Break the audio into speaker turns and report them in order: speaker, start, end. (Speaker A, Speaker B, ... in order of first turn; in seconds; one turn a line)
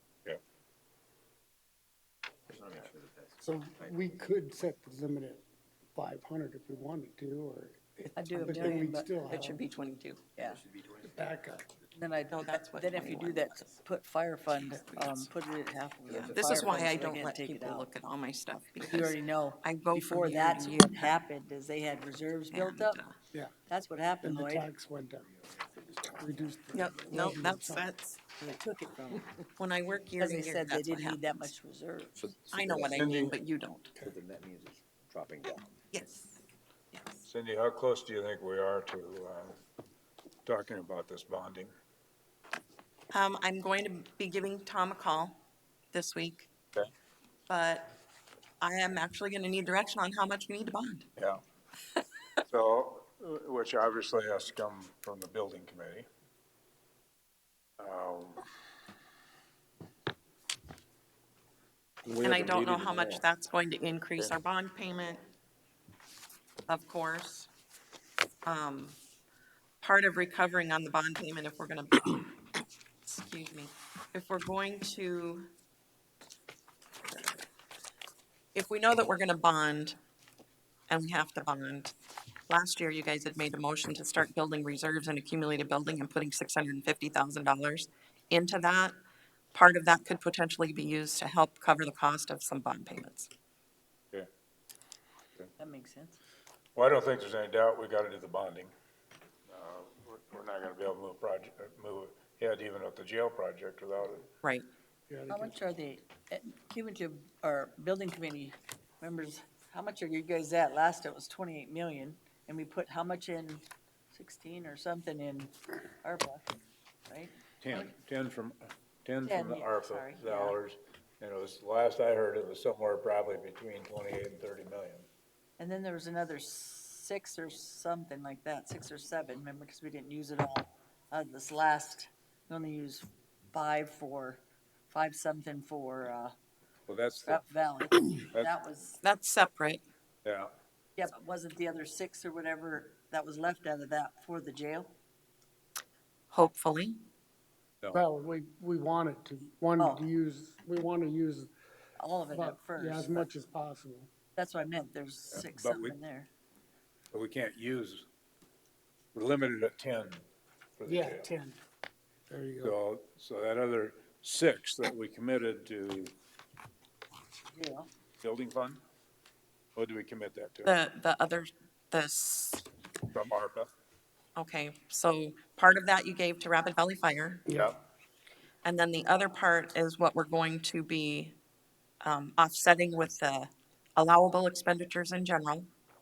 Speaker A: 2.5-3.4
Speaker B: 3.4-5.4
Speaker B: 6.0-9.6
Speaker C: 8.2-9.1
Speaker D: 8.4-10.2
Speaker C: 10.4-10.6
Speaker B: 11.0-11.7
Speaker C: 11.9-17.9
Speaker D: 12.3-13.6
Speaker D: 14.5-15.3
Speaker D: 16.1-21.2
Speaker A: 16.4-16.9
Speaker C: 18.8-23.0
Speaker D: 22.5-23.1
Speaker C: 23.7-24.7
Speaker B: 24.2-27.9
Speaker D: 26.7-28.2
Speaker C: 28.4-29.4
Speaker D: 29.6-31.5
Speaker C: 30.2-32.2
Speaker A: 32.2-33.1
Speaker D: 32.5-33.9
Speaker E: 33.0-33.4
Speaker A: 34.0-35.7
Speaker D: 35.9-36.4
Speaker D: 36.9-37.2
Speaker E: 37.2-39.6
Speaker E: 40.5-41.7
Speaker D: 43.1-45.4
Speaker D: 45.9-46.5
Speaker D: 47.5-47.9
Speaker D: 48.6-51.1
Speaker E: 51.2-51.4
Speaker E: 52.5-56.1
Speaker E: 57.8-58.5
Speaker E: 62.0-63.2
Speaker D: 62.2-65.2
Speaker D: 66.7-67.5
Speaker D: 68.4-69.0
Speaker D: 69.8-72.4
Speaker D: 73.1-75.5
Speaker D: 78.5-80.0
Speaker D: 80.9-81.9
Speaker D: 82.5-89.0
Speaker D: 89.5-93.3
Speaker C: 95.6-96.2
Speaker E: 96.8-98.7
Speaker E: 99.5-104.3
Speaker B: 105.1-105.6
Speaker C: 105.3-116.5
Speaker C: 117.1-117.9
Speaker E: 117.6-125.1
Speaker C: 119.3-120.6
Speaker C: 125.6-136.3
Speaker E: 136.9-137.4
Speaker C: 137.2-139.0
Speaker D: 139.0-139.8
Speaker E: 140.2-140.5
Speaker C: 141.0-144.9
Speaker D: 146.3-147.0
Speaker B: 147.9-151.5
Speaker C: 149.8-150.0
Speaker C: 152.0-153.3
Speaker B: 152.3-154.1
Speaker C: 154.4-156.3
Speaker E: 155.3-156.0
Speaker E: 157.1-158.1
Speaker E: 159.2-160.2
Speaker E: 160.8-161.2
Speaker B: 160.9-161.6
Speaker B: 162.3-162.8
Speaker E: 162.6-166.1
Speaker C: 167.5-167.9
Speaker E: 168.2-168.8
Speaker E: 169.8-170.7
Speaker D: 170.6-172.7
Speaker E: 173.1-173.7
Speaker D: 174.4-177.5
Speaker B: 177.5-177.7
Speaker D: 178.6-181.4
Speaker D: 182.0-185.7